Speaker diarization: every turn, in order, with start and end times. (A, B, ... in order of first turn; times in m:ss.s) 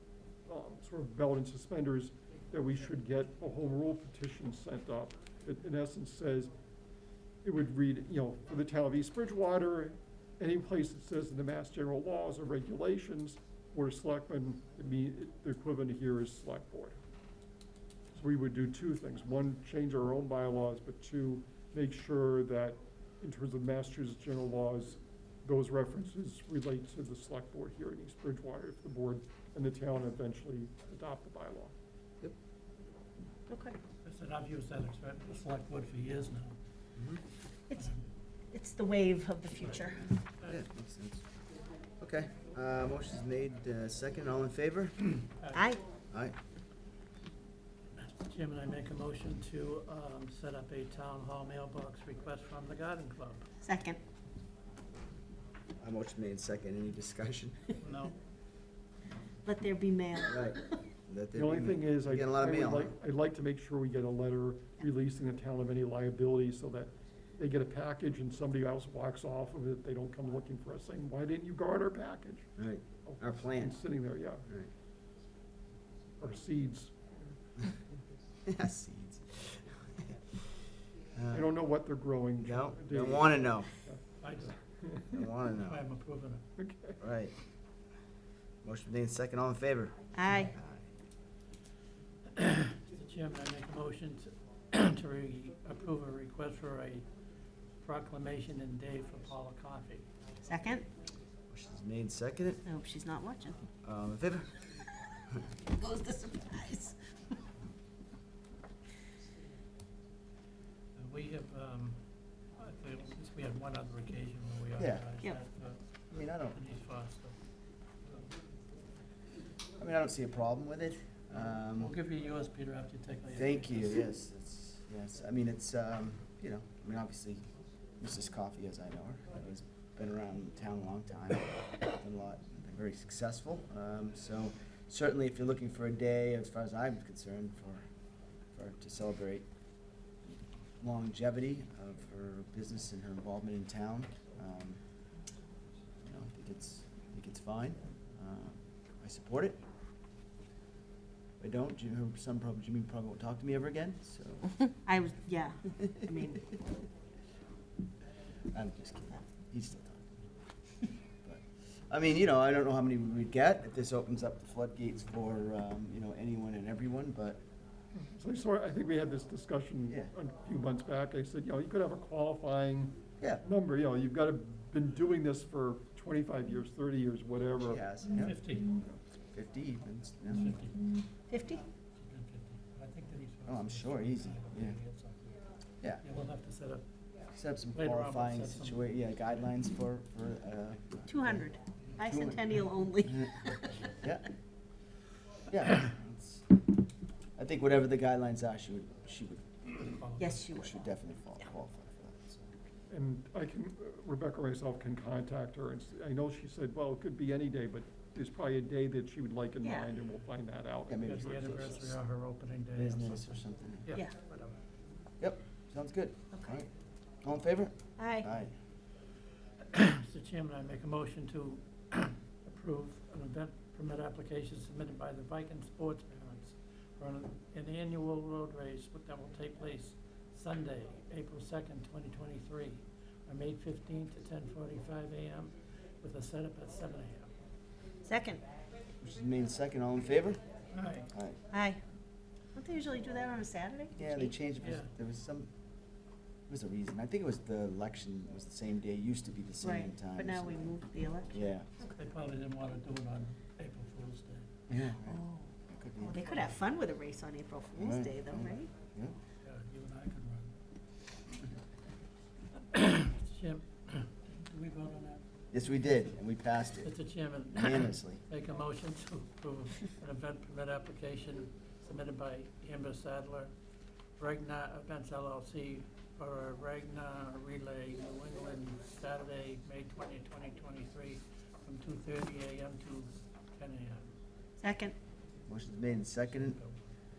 0:00.5-0:06.5 A
0:07.4-0:17.0 A
0:18.1-0:31.7 A
0:33.5-0:33.8 B
0:34.0-0:36.6 C
0:37.0-0:37.2 D
0:37.8-0:38.0 C
0:38.5-0:40.1 B
0:40.4-0:41.3 D
0:42.0-0:45.1 D
0:45.4-0:45.7 C
0:45.5-0:45.8 B
0:48.0-0:53.5 C
0:53.6-0:54.0 B
0:55.8-0:57.8 D
0:57.8-0:58.2 C
0:59.4-1:00.8 B
1:00.3-1:02.9 D
1:01.3-1:12.5 A
1:12.6-1:13.8 D
1:13.0-1:14.5 A
1:16.2-1:16.9 A
1:18.5-1:20.0 D
1:21.1-1:21.5 D
1:21.3-1:25.2 A
1:22.4-1:23.7 D
1:24.2-1:24.6 C
1:25.1-1:25.8 D
1:25.4-1:26.4 C
1:26.6-1:27.0 A
1:27.0-1:27.4 D
1:28.6-1:30.8 D
1:30.1-1:30.6 B
1:32.4-1:37.1 C
1:37.8-1:40.1 C
1:40.4-1:40.9 B
1:41.5-1:42.6 D
1:42.6-1:43.6 B
1:43.8-1:44.7 D
1:45.7-1:47.0 B
1:51.0-1:52.0 C
1:52.6-1:57.4 C
1:54.8-1:55.1 D
1:56.1-1:56.6 D
1:59.8-2:01.9 D
2:01.6-2:04.1 C
2:03.3-2:07.4 D
2:08.0-2:17.8 D
2:18.5-2:19.5 D
2:20.8-2:24.8 D
2:26.0-2:29.6 D
2:31.4-2:34.6 D
2:34.8-2:36.5 B
2:38.5-2:40.3 D
2:41.2-2:47.4 D
2:48.0-2:57.8 A
2:57.6-2:58.4 D
2:58.1-2:58.8 C
2:59.3-3:00.6 D
3:00.3-3:01.0 C
3:01.3-3:01.6 B
3:02.0-3:05.4 C
3:03.5-3:04.8 D
3:06.0-3:06.8 C
3:07.3-3:13.4 D
3:07.7-3:08.9 C
3:11.1-3:13.9 B
3:14.0-3:14.3 D
3:15.5-3:16.5 D
3:17.4-3:19.8 D
3:19.8-3:20.4 C
3:20.2-3:20.8 B
3:20.4-3:22.5 D
3:22.9-3:31.8 A
3:29.6-3:29.9 B
3:30.9-3:31.9 D
3:31.0-3:34.6 C
3:32.8-3:33.9 D
3:35.2-3:36.7 D
3:37.2-3:38.5 D
3:38.0-3:38.3 B
3:39.7-3:57.3 C
3:58.0-3:58.4 B
3:59.0-4:00.4 D
4:00.7-4:01.1 C
4:01.1-4:01.4 D
4:01.5-4:01.8 B
4:02.6-4:04.4 B
4:04.0-4:05.5 D
4:04.6-4:04.9 C
4:06.5-4:10.8 D
4:09.6-4:12.0 B
4:11.3-4:11.7 D
4:11.9-4:14.5 C
4:14.7-4:16.2 D
4:15.1-4:15.4 B
4:16.0-4:18.7 B
4:17.8-4:19.2 D
4:19.4-4:20.5 C
4:22.7-4:25.2 C
4:25.5-4:26.9 D
4:26.8-4:33.5 C
4:27.5-4:28.2 D
4:34.2-4:44.1 C
4:44.6-4:45.0 B
4:45.5-4:46.6 D
4:46.4-4:46.8 C